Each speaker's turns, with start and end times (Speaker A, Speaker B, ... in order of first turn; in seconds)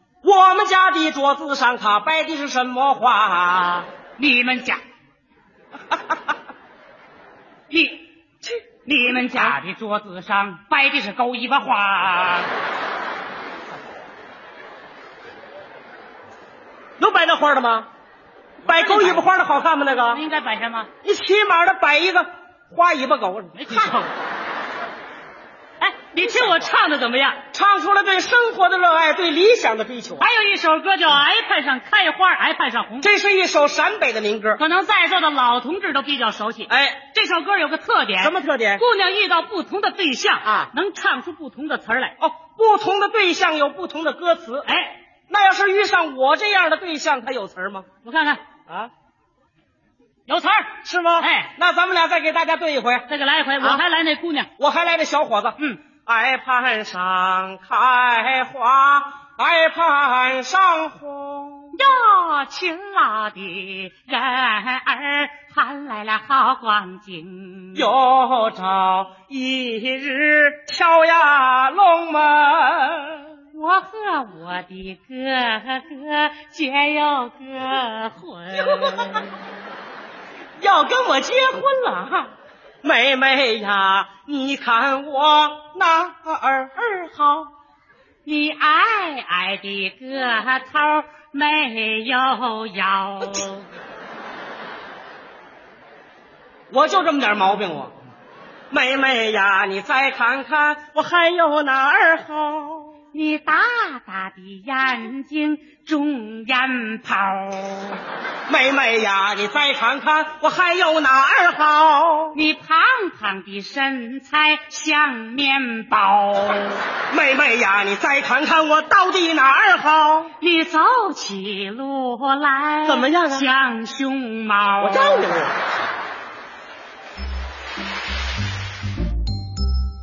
Speaker A: 0.2-3.9, 9.1-9.6, 17.0-17.9, 18.6-20.2, 21.0-23.9, 26.2-26.7, 27.5-30.3, 33.0-34.6, 36.7-37.0, 38.2-38.8, 40.4-40.7, 42.2-44.7, 45.3-47.9, 50.8-53.1, 54.6-61.8, 67.7-73.2, 78.5-79.2, 80.6-82.3, 82.8-87.5, 96.7-97.9, 98.7-102.9, 108.5-112.4, 117.1-120.3, 122.8-123.5, 124.8-125.5
Speaker B: 4.2-4.8, 7.7-8.1, 8.8-12.5, 18.6-19.3, 20.1-20.9, 23.6-24.1, 25.8-27.4, 30.2-33.1, 34.6-42.1, 44.6-45.0, 48.0-48.4, 50.3-51.5, 53.1-54.5, 61.7-67.9, 73.5-79.2, 88.2-93.6, 103.1-108.0, 112.3-116.8, 120.4-125.3